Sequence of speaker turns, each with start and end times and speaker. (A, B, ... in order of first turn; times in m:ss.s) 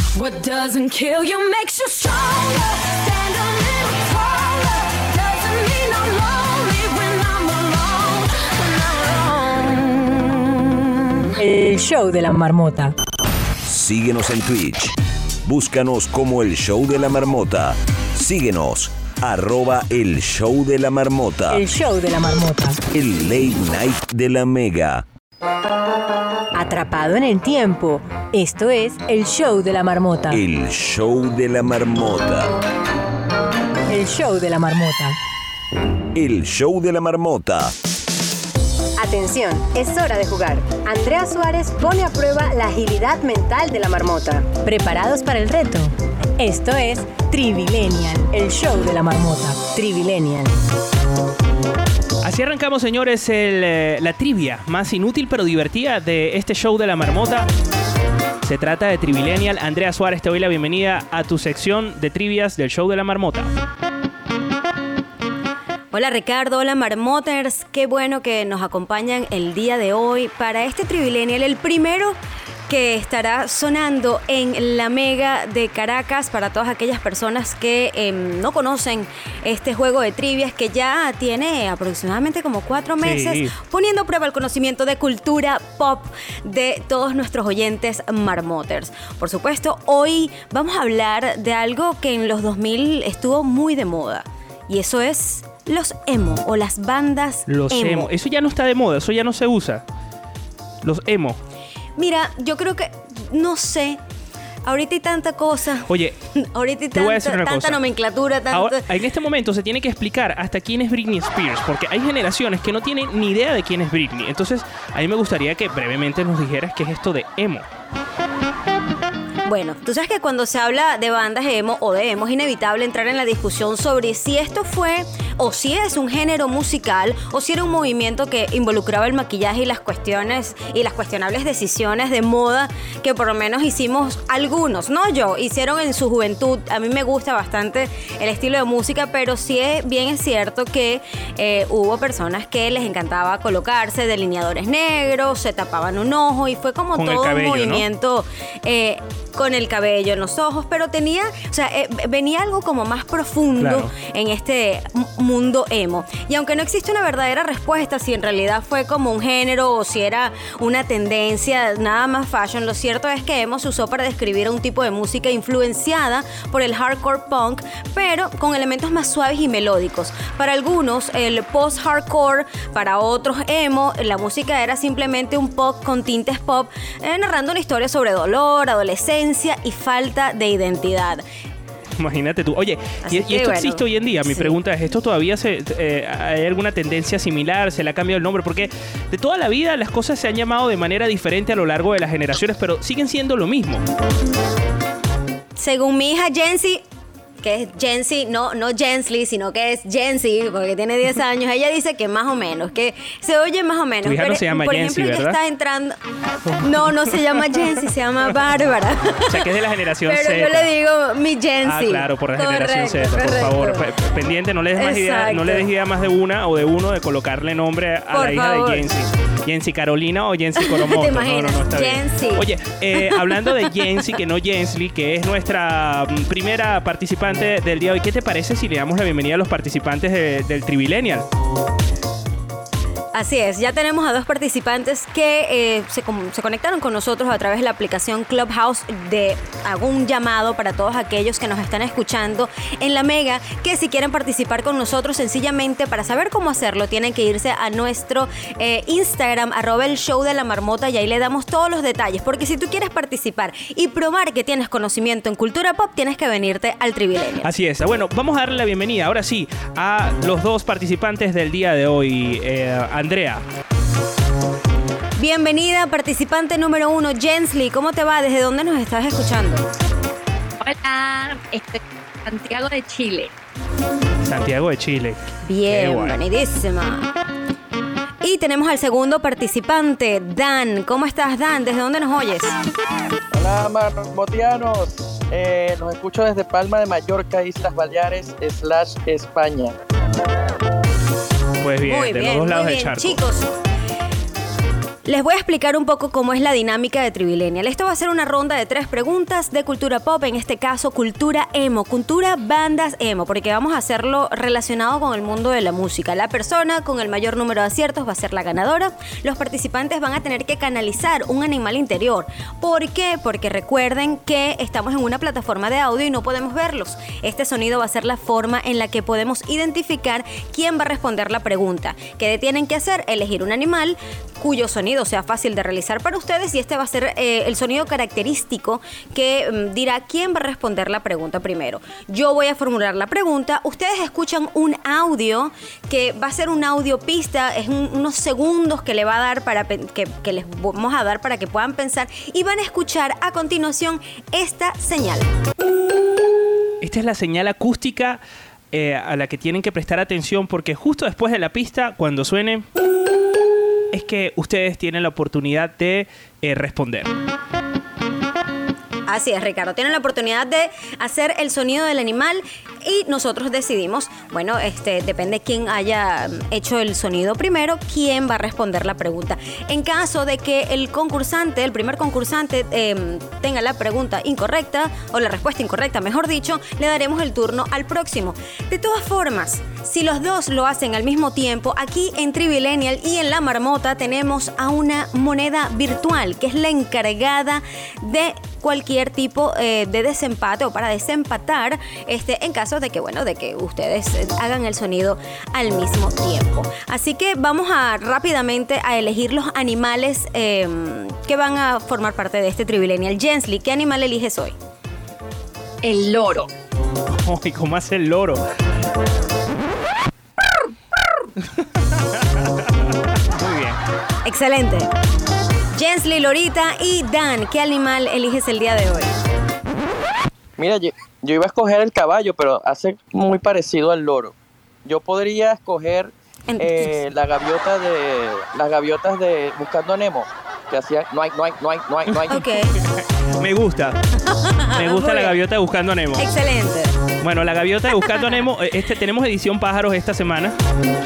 0:00.2-0:09.8 A
0:11.4-0:13.0 B
0:13.7-0:14.9 C
0:15.4-0:21.6 C
0:21.5-0:22.8 B
0:22.9-0:25.0 C
0:26.5-0:30.4 B
0:30.3-0:32.5 C
0:33.9-0:35.2 B
0:36.1-0:37.7 C
0:39.0-0:50.6 B
0:52.2-0:57.5 D
0:58.4-1:03.5 D
1:05.9-1:38.1 E
1:23.0-1:23.6 D
1:37.5-1:39.8 D
1:40.8-1:41.4 D
1:42.0-1:44.0 E
1:44.6-1:48.8 E
1:45.9-1:46.2 D
1:46.9-1:47.8 D
1:48.5-1:57.7 D
1:59.4-3:01.2 E
2:26.9-2:27.8 D
2:33.6-2:33.9 D
3:02.0-3:13.8 D
3:03.0-3:04.6 E
3:15.6-3:16.8 E
3:17.4-3:26.0 E
3:24.0-3:25.4 D
3:26.6-3:29.4 E
3:29.3-3:30.7 D
3:30.1-3:33.8 E
3:31.6-3:51.2 D
3:34.8-3:35.7 E
3:38.1-3:38.9 E
3:40.6-3:43.7 E
3:53.1-4:17.5 E
4:17.4-4:23.4 D
4:25.2-4:29.7 E
4:30.6-4:33.3 F
4:34.2-4:36.2 D
4:35.5-4:37.1 E
4:38.2-4:42.5 E
4:43.3-4:49.7 G
4:51.6-4:53.2 D
4:51.8-4:53.5 E
4:55.1-5:45.3 E
5:46.8-5:48.2 D
5:48.7-5:52.6 D
5:53.9-5:57.1 D
5:59.1-6:44.6 E
6:45.8-6:46.5 F
6:47.2-6:48.4 D
6:53.3-6:53.8 D
6:54.2-6:54.9 E
6:55.7-6:59.2 E
7:00.6-7:04.3 G
7:04.8-7:12.4 G
7:06.5-7:06.9 E
7:12.3-7:12.7 E
7:13.4-7:14.0 D
7:14.4-7:15.4 E
7:14.7-7:16.3 D
7:16.2-7:16.9 E
7:17.2-7:20.6 D